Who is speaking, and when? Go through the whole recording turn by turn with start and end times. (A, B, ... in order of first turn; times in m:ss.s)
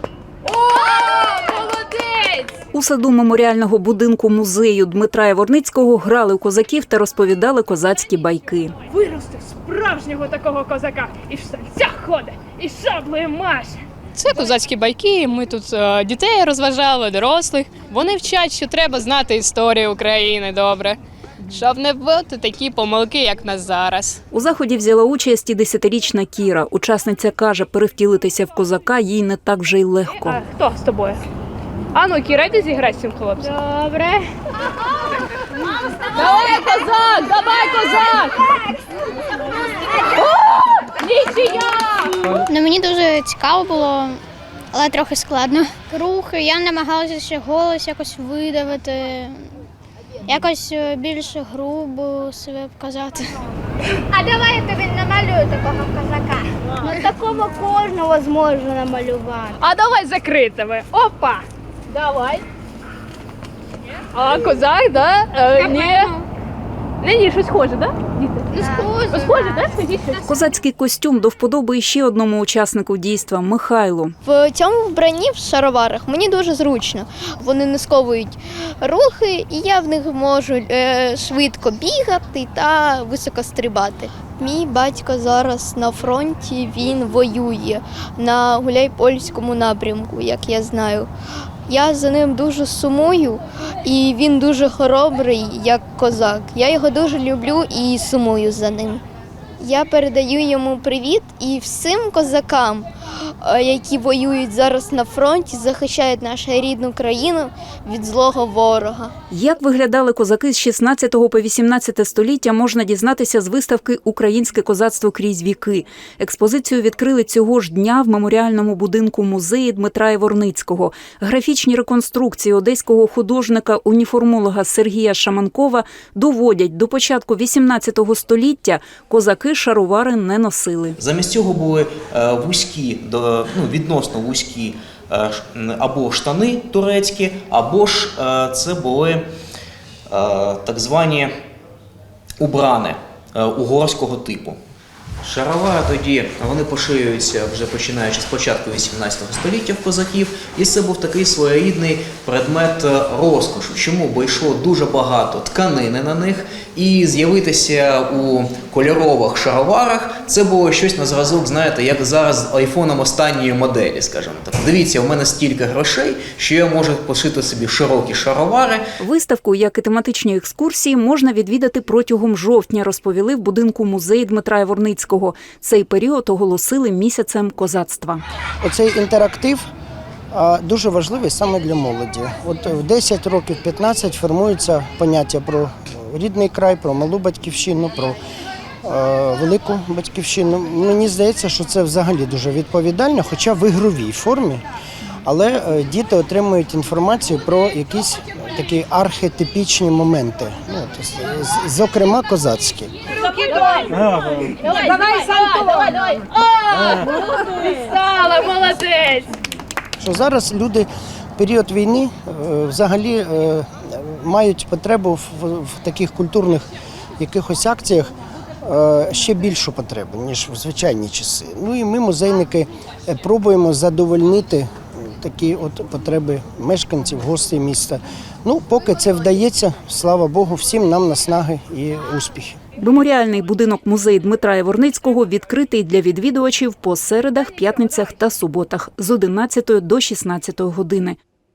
0:00.4-0:02.5 A
0:02.7-0:08.7 B
0:08.8-0:13.8 A
0:14.2-0:24.2 C
0:24.3-0:30.4 B
0:30.2-0:31.2 A
0:31.9-0:33.6 A
0:33.4-0:34.3 D
0:36.1-0:38.5 A
0:40.9-0:42.3 A
0:42.3-0:44.2 E
0:44.7-0:49.5 E
0:50.3-0:53.4 E
0:54.1-0:59.6 D
0:59.6-1:02.4 A
1:04.1-1:06.2 A
1:05.6-1:06.2 E
1:07.0-1:10.3 A
1:08.6-1:09.6 E
1:10.3-1:14.1 B
1:14.2-1:31.1 F
1:31.7-1:39.0 F
1:39.6-1:42.9 F
1:43.4-1:49.1 F
1:49.3-2:11.0 B
2:11.0-2:19.2 G
2:20.1-2:21.3 G
2:22.4-2:24.6 G
2:25.2-2:48.8 G
2:49.0-2:58.2 B
2:58.6-2:59.6 H
3:00.3-3:08.2 H
3:08.8-3:14.6 H
3:15.2-3:22.9 H
3:23.3-3:29.3 A
3:30.0-3:36.7 H
3:37.2-3:38.1 H
3:38.6-3:52.6 H
3:52.8-4:01.2 B